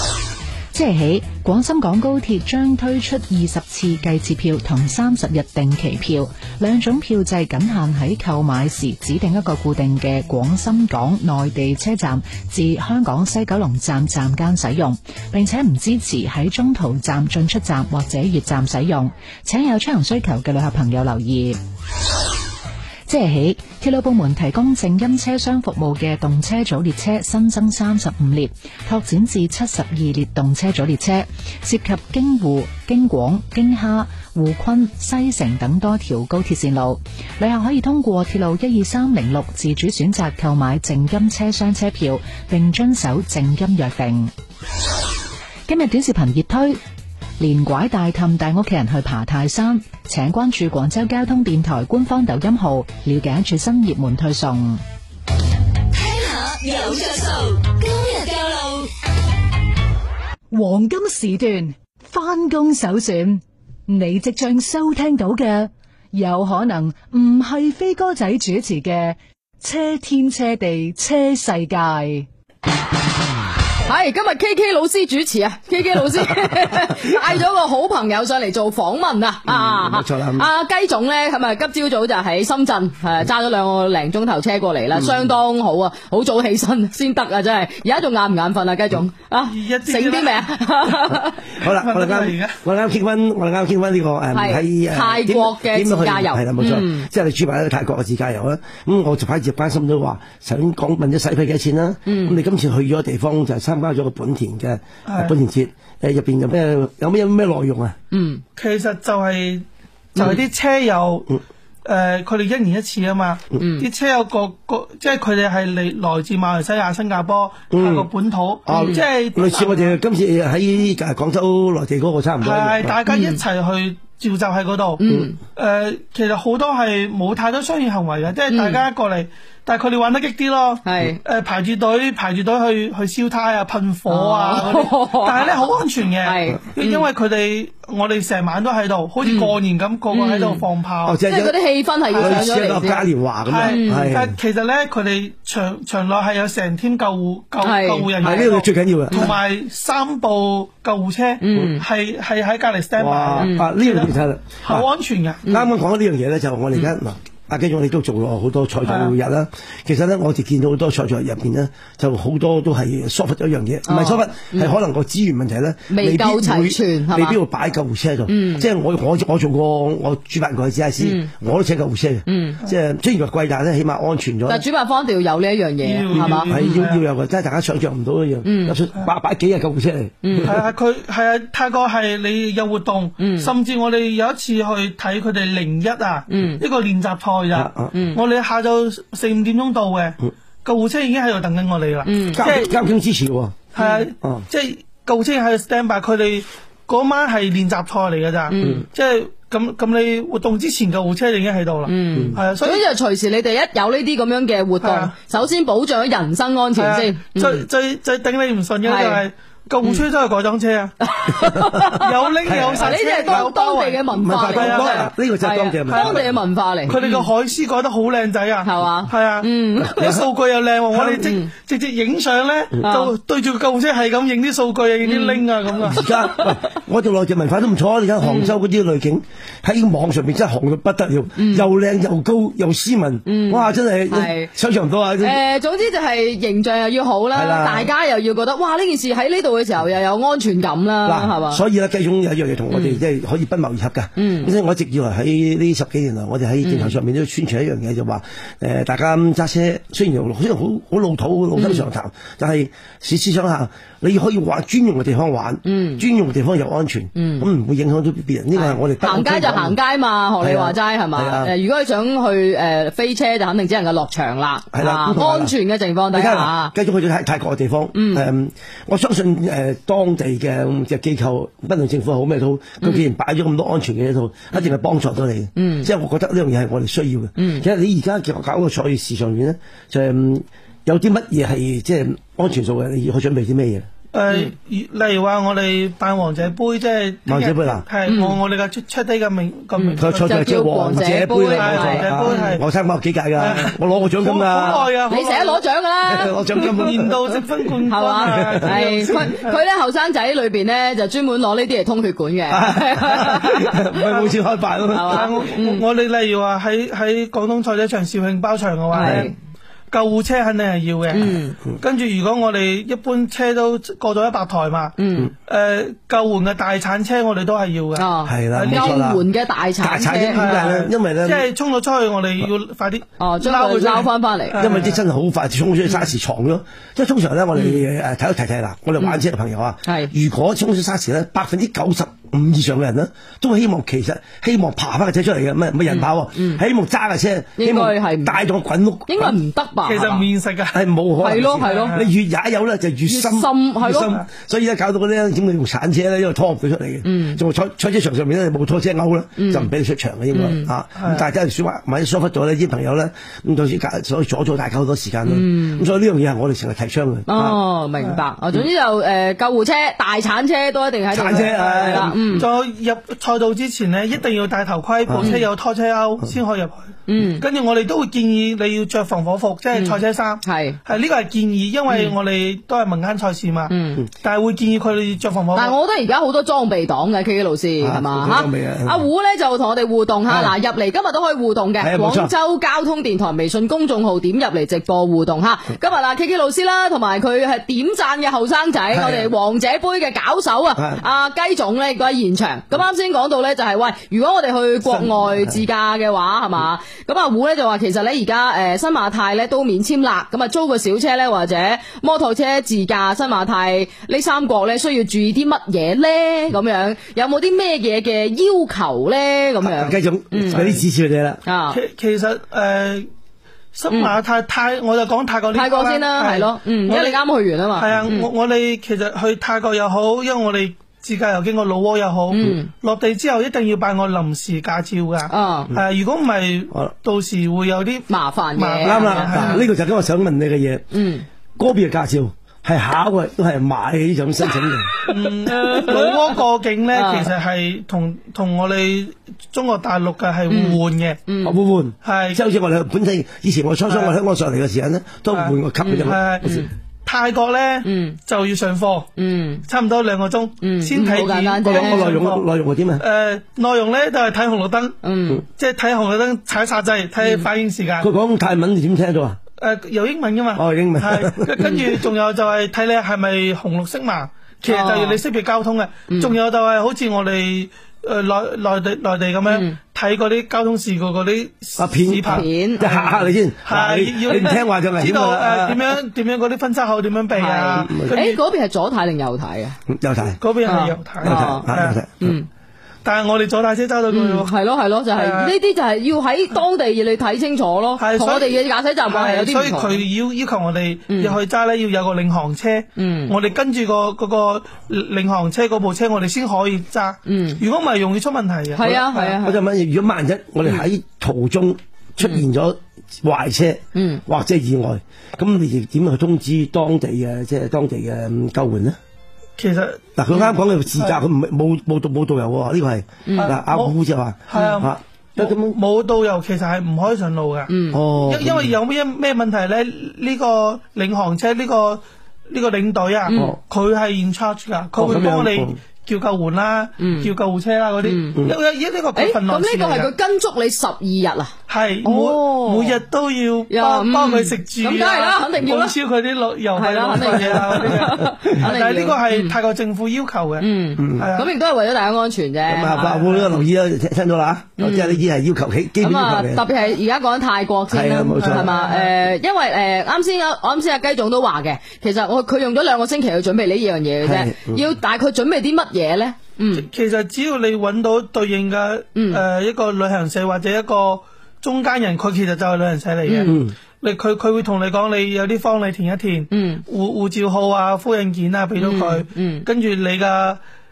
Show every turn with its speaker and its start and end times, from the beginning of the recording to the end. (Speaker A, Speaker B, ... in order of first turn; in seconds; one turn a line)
Speaker A: 0.7-21.6
Speaker A: 23.1-44.3
Speaker A: 45.7-46.8
Speaker A: 47.4-54.8
Speaker B: 55.9-58.9
Speaker C: 60.5-72.3
Speaker D: 73.8-91.4
Speaker E: 79.5-80.5
Speaker F: 89.5-91.0
Speaker E: 91.6-108.0
Speaker F: 91.7-92.6
Speaker D: 94.3-97.1
Speaker D: 102.0-102.4
Speaker F: 105.0-105.3
Speaker D: 108.1-108.4
Speaker F: 108.5-111.3
Speaker F: 111.8-119.9
Speaker D: 113.6-113.9
Speaker E: 117.7-118.1
Speaker E: 118.7-123.0
Speaker D: 118.7-119.0
Speaker F: 122.4-125.0
Speaker D: 123.1-123.4
Speaker D: 125.0-125.4
Speaker F: 125.5-141.2
Speaker D: 128.5-128.8
Speaker D: 130.8-131.2
Speaker D: 134.1-135.6
Speaker D: 136.2-137.1
Speaker D: 139.2-139.5
Speaker D: 140.1-140.6
Speaker E: 141.0-141.5
Speaker D: 141.2-143.1
Speaker F: 142.1-142.6
Speaker E: 142.2-144.3
Speaker F: 143.5-155.4
Speaker D: 143.6-144.2
Speaker D: 147.6-148.5
Speaker E: 148.2-149.2
Speaker D: 151.4-151.8
Speaker E: 153.0-154.8
Speaker D: 153.4-153.7
Speaker E: 155.5-174.6
Speaker F: 158.8-159.1
Speaker D: 163.9-164.7
Speaker D: 165.9-167.4
Speaker D: 168.3-168.7
Speaker D: 171.0-171.3
Speaker D: 172.3-172.6
Speaker D: 174.5-176.8
Speaker F: 175.8-177.0
Speaker E: 176.1-180.6
Speaker D: 178.4-178.8
Speaker D: 180.2-180.6
Speaker F: 180.4-192.7
Speaker D: 183.2-183.5
Speaker D: 186.3-186.6
Speaker E: 187.5-187.9
Speaker D: 187.9-188.2
Speaker D: 192.0-192.5
Speaker E: 192.3-194.4
Speaker F: 193.7-202.8
Speaker D: 193.8-194.1
Speaker D: 198.5-198.8
Speaker E: 198.6-198.8
Speaker D: 201.8-207.7
Speaker F: 204.8-205.1
Speaker F: 206.7-210.9
Speaker D: 208.8-209.2
Speaker D: 211.0-212.2
Speaker F: 211.9-215.1
Speaker E: 212.4-213.5
Speaker D: 212.7-217.3
Speaker E: 214.1-216.2
Speaker F: 215.9-216.2
Speaker F: 216.8-226.0
Speaker D: 218.6-220.2
Speaker E: 219.8-220.2
Speaker D: 221.0-221.5
Speaker D: 222.8-223.1
Speaker D: 225.0-226.5
Speaker E: 225.8-235.4
Speaker D: 228.2-228.5
Speaker D: 231.3-231.7
Speaker D: 233.2-234.5
Speaker D: 235.2-241.6
Speaker E: 237.3-237.9
Speaker E: 241.0-259.8
Speaker D: 242.7-243.0
Speaker D: 244.2-244.5
Speaker D: 246.6-246.9
Speaker D: 251.6-251.8
Speaker D: 255.6-256.0
Speaker D: 257.1-257.4
Speaker D: 258.5-266.7
Speaker E: 260.4-261.5
Speaker E: 264.7-265.5
Speaker E: 266.1-283.9
Speaker D: 267.9-268.2
Speaker D: 272.8-273.1
Speaker D: 275.6-275.9
Speaker D: 277.4-277.6
Speaker F: 284.1-290.4
Speaker E: 287.2-287.9
Speaker D: 288.1-288.4
Speaker D: 289.8-292.6
Speaker E: 290.0-294.9
Speaker F: 291.5-292.6
Speaker F: 293.4-295.6
Speaker D: 293.4-293.7
Speaker D: 295.1-296.9
Speaker E: 296.1-297.3
Speaker F: 296.7-299.6
Speaker D: 297.9-303.8
Speaker E: 298.2-298.8
Speaker E: 302.5-305.3
Speaker F: 304.1-304.3
Speaker D: 304.9-305.8
Speaker F: 305.1-309.3
Speaker D: 308.9-309.3
Speaker E: 309.0-309.3
Speaker F: 309.9-319.0
Speaker D: 311.1-311.6
Speaker D: 315.0-315.3
Speaker D: 317.9-320.6
Speaker E: 318.2-319.2
Speaker E: 319.8-321.5
Speaker F: 320.3-325.0
Speaker D: 323.2-324.7
Speaker E: 324.6-339.4
Speaker D: 327.6-327.8
Speaker D: 329.9-330.1
Speaker D: 335.9-336.6
Speaker D: 337.6-338.4
Speaker D: 339.1-340.2
Speaker F: 339.8-340.8
Speaker E: 340.7-357.6
Speaker D: 341.2-341.9
Speaker F: 341.5-342.1
Speaker D: 343.1-344.2
Speaker D: 347.0-347.4
Speaker D: 349.4-349.7
Speaker D: 350.3-350.7
Speaker F: 351.0-351.2
Speaker D: 355.3-355.8
Speaker D: 357.3-362.5
Speaker E: 361.1-362.3
Speaker F: 361.5-366.9
Speaker E: 365.1-365.3
Speaker D: 367.1-367.4
Speaker F: 367.4-375.8
Speaker D: 369.7-370.8
Speaker D: 371.9-372.1
Speaker D: 373.7-374.0
Speaker D: 375.5-410.6
Speaker E: 377.8-379.0
Speaker E: 380.3-380.5
Speaker E: 381.8-382.3
Speaker E: 388.9-389.3
Speaker E: 390.8-391.0
Speaker E: 394.9-395.6
Speaker E: 409.6-411.4
Speaker F: 410.5-410.8
Speaker D: 411.4-411.8
Speaker F: 411.7-413.1
Speaker F: 413.7-417.2
Speaker D: 415.5-418.3
Speaker F: 417.7-429.6
Speaker D: 422.3-422.7
Speaker D: 425.3-425.7
Speaker D: 428.1-429.6
Speaker E: 428.8-430.8
Speaker D: 430.9-431.2
Speaker E: 431.6-434.9
Speaker F: 435.1-441.2
Speaker D: 435.1-436.2
Speaker D: 436.9-437.3
Speaker D: 440.5-441.5
Speaker E: 441.4-446.6
Speaker F: 442.0-442.4
Speaker F: 443.9-444.1
Speaker F: 445.3-449.1
Speaker D: 445.8-446.7
Speaker D: 447.8-448.2
Speaker D: 449.1-449.6
Speaker F: 449.6-452.4
Speaker D: 450.6-452.2
Speaker E: 451.6-453.0
Speaker F: 453.0-454.9
Speaker D: 455.0-455.4
Speaker F: 455.5-458.1
Speaker E: 458.0-459.4
Speaker F: 459.6-472.5
Speaker E: 460.6-461.8
Speaker D: 464.6-465.2
Speaker D: 469.5-469.7
Speaker E: 471.8-475.9
Speaker D: 472.3-473.1
Speaker F: 473.6-478.4
Speaker D: 477.3-479.8
Speaker E: 477.8-478.1
Speaker E: 479.9-480.4
Speaker F: 480.4-482.0
Speaker D: 480.6-482.4
Speaker E: 481.2-482.3
Speaker F: 483.0-484.5
Speaker D: 484.1-490.0
Speaker F: 485.1-485.5
Speaker F: 488.0-499.4
Speaker D: 491.1-491.4
Speaker D: 492.9-493.3
Speaker D: 497.2-497.6
Speaker D: 498.7-499.6
Speaker E: 499.4-509.0
Speaker D: 503.9-504.2
Speaker F: 509.6-510.1
Speaker E: 510.1-515.8
Speaker D: 513.2-513.5
Speaker F: 513.4-513.9
Speaker F: 514.5-530.1
Speaker D: 514.5-514.8
Speaker D: 517.7-518.0
Speaker E: 517.9-518.7
Speaker D: 523.3-523.5
Speaker E: 523.3-523.6
Speaker E: 525.0-525.7
Speaker D: 527.0-527.3
Speaker D: 528.0-528.4
Speaker D: 529.1-533.0
Speaker F: 531.7-541.5
Speaker D: 533.7-535.9
Speaker D: 536.7-539.5
Speaker D: 540.6-543.6
Speaker E: 541.0-541.3
Speaker E: 542.6-546.6
Speaker F: 543.0-543.5
Speaker D: 544.8-545.2
Speaker D: 546.0-556.9
Speaker E: 547.9-548.7
Speaker F: 548.4-549.1
Speaker E: 554.2-554.8
Speaker F: 556.7-570.6
Speaker D: 559.1-559.4
Speaker D: 563.3-563.5
Speaker E: 563.4-563.7
Speaker D: 566.5-566.8
Speaker D: 568.8-569.6